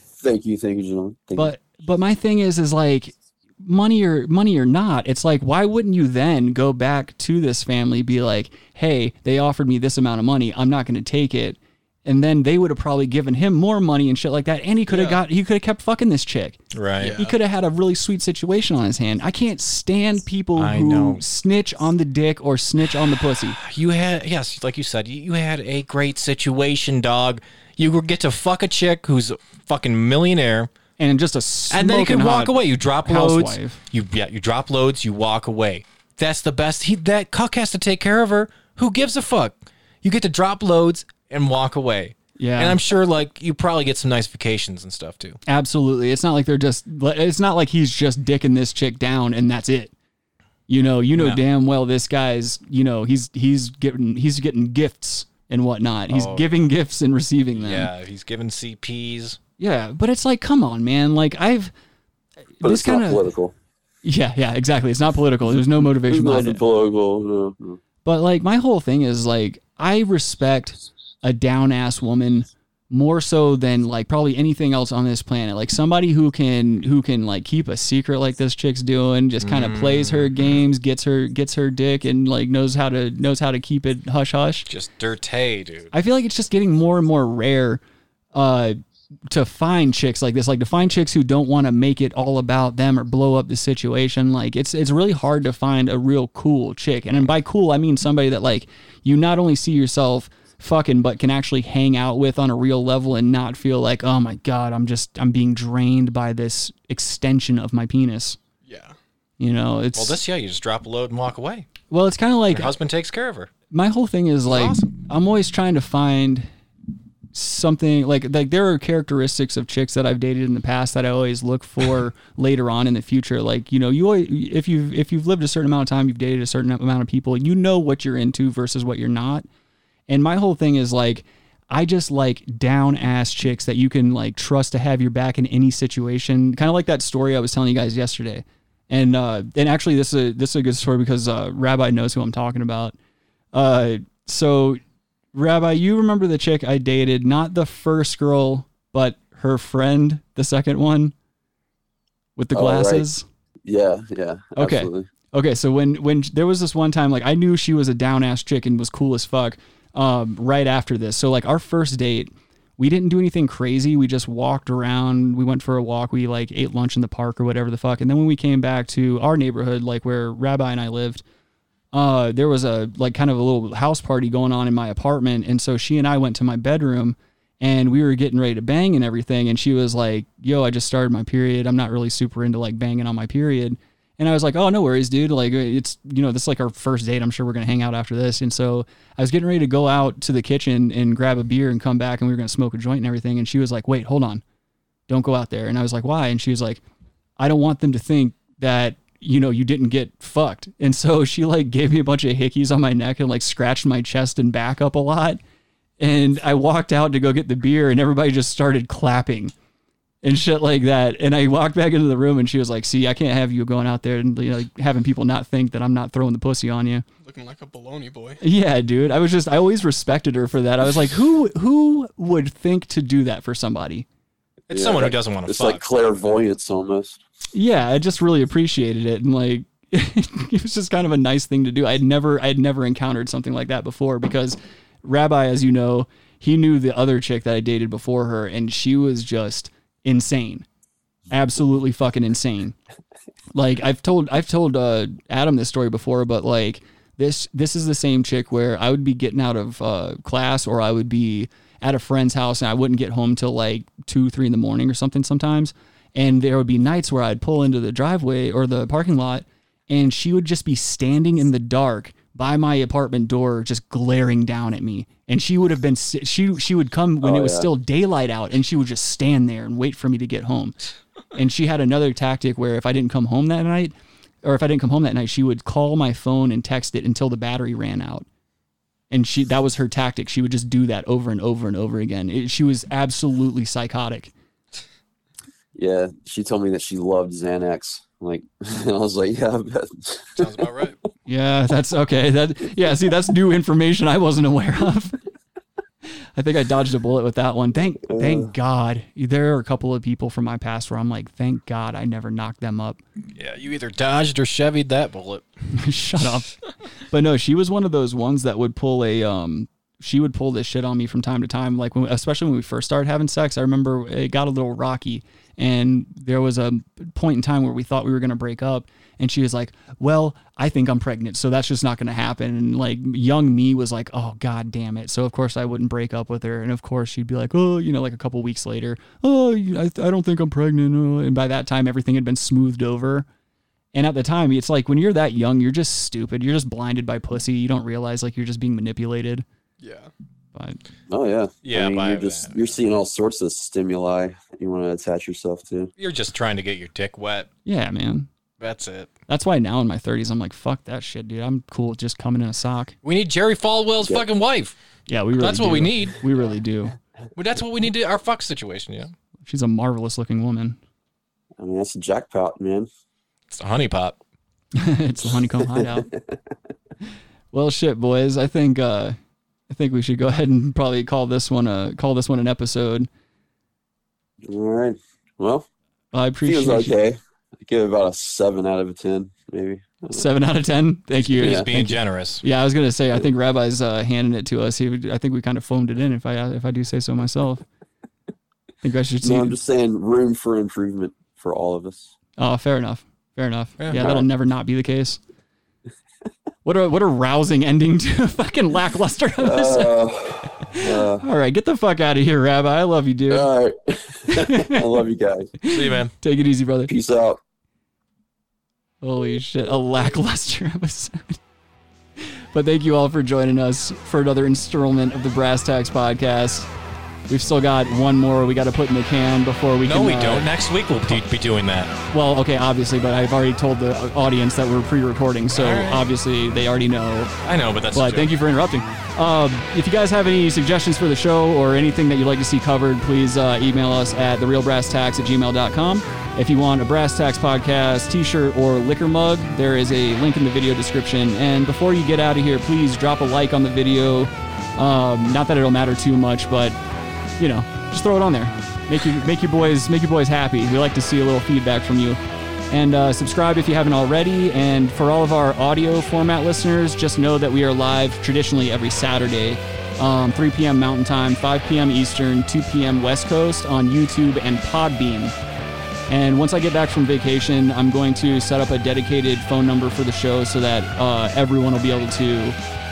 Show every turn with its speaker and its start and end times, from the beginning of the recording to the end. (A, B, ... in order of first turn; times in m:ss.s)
0:00.2-0:01.5 A
0:01.4-0:23.6 B
0:14.9-0:15.2 C
0:16.7-0:17.2 D
0:17.0-0:17.3 C
0:20.6-0:21.2 D
0:23.6-0:30.7 D
0:31.0-0:33.8 B
0:31.7-0:45.4 D
0:42.4-0:42.8 B
0:45.5-0:49.9 B
0:50.7-0:57.9 B
0:51.1-0:51.4 D
0:56.1-0:56.7 D
0:57.5-0:59.4 D
0:59.6-1:01.7 B
1:02.6-1:03.2 B
1:02.6-1:03.5 A
1:04.0-1:06.6 B
1:06.0-1:07.8 A
1:08.0-1:24.6 B
1:19.4-1:20.6 D
1:24.7-1:25.9 D
1:25.9-1:27.8 B
1:28.3-1:28.8 B
1:29.3-1:48.4 B
1:48.6-1:49.0 C
1:49.4-1:50.2 B
1:49.9-1:51.7 D
1:51.9-1:52.7 B
1:52.5-1:53.5 D
1:53.7-1:56.5 B
1:54.4-1:55.0 D
1:57.3-2:09.4 B
2:10.1-2:23.0 B
2:23.5-2:24.8 B
2:25.3-2:31.1 B
2:32.4-2:33.2 B
2:32.5-2:33.1 A
2:33.6-2:35.1 A
2:34.6-2:51.2 B
2:51.9-3:14.4 B
3:15.1-3:16.8 B
3:17.4-3:25.4 B
3:26.0-3:29.5 B
3:30.2-3:37.0 B
3:37.2-3:38.4 C
3:38.4-3:44.0 B
3:44.7-3:46.2 D
3:44.7-3:47.2 A
3:47.5-4:00.6 B
4:01.3-4:02.7 B
4:03.5-4:30.7 B
4:27.2-4:27.7 A
4:31.3-4:38.2 B
4:39.1-4:44.3 B
4:45.7-4:50.5 A
4:50.4-4:51.0 D
4:51.2-4:55.2 B
4:56.4-5:03.0 B
4:58.1-4:58.5 A
5:03.4-5:05.5 D
5:05.7-5:06.5 B
5:07.1-5:33.3 B
5:33.9-5:39.4 B
5:39.8-5:40.1 C
5:41.1-5:45.9 A
5:41.6-5:42.8 D
5:46.0-5:47.5 D
5:47.6-5:48.3 B
5:48.6-5:49.1 D
5:49.3-5:53.0 B
5:53.0-5:54.7 D
5:55.1-5:56.9 B
5:55.4-5:56.2 D
5:57.4-5:59.1 D
5:59.4-6:00.8 B
6:01.6-6:02.9 A
6:03.5-6:04.2 D
6:04.7-6:06.0 B
6:05.8-6:06.0 A
6:07.5-6:09.2 B
6:09.7-6:13.1 B
6:14.4-6:15.6 A
6:16.1-6:17.0 B
6:16.4-6:20.2 A
6:20.1-6:27.6 B
6:21.3-6:22.4 D
6:21.4-6:21.7 A
6:28.8-6:29.5 B
6:29.2-6:32.1 A
6:32.4-6:35.2 B
6:33.8-6:34.1 D
6:33.9-6:34.2 A
6:36.6-6:39.9 B
6:39.4-6:41.2 A
6:41.2-6:43.5 B
6:43.3-6:45.5 A
6:44.4-6:44.7 B
6:45.6-6:46.9 B
6:45.6-6:46.1 D
6:46.9-6:47.4 A
6:49.0-6:51.4 B
6:52.5-6:56.7 B
6:57.3-7:00.5 B
6:59.8-7:01.9 D
7:02.1-7:07.3 B
7:05.5-7:06.1 D
7:07.4-7:08.3 D
7:07.9-7:26.8 B
7:27.4-7:32.2 B
7:32.7-7:45.3 B
7:46.1-7:52.6 B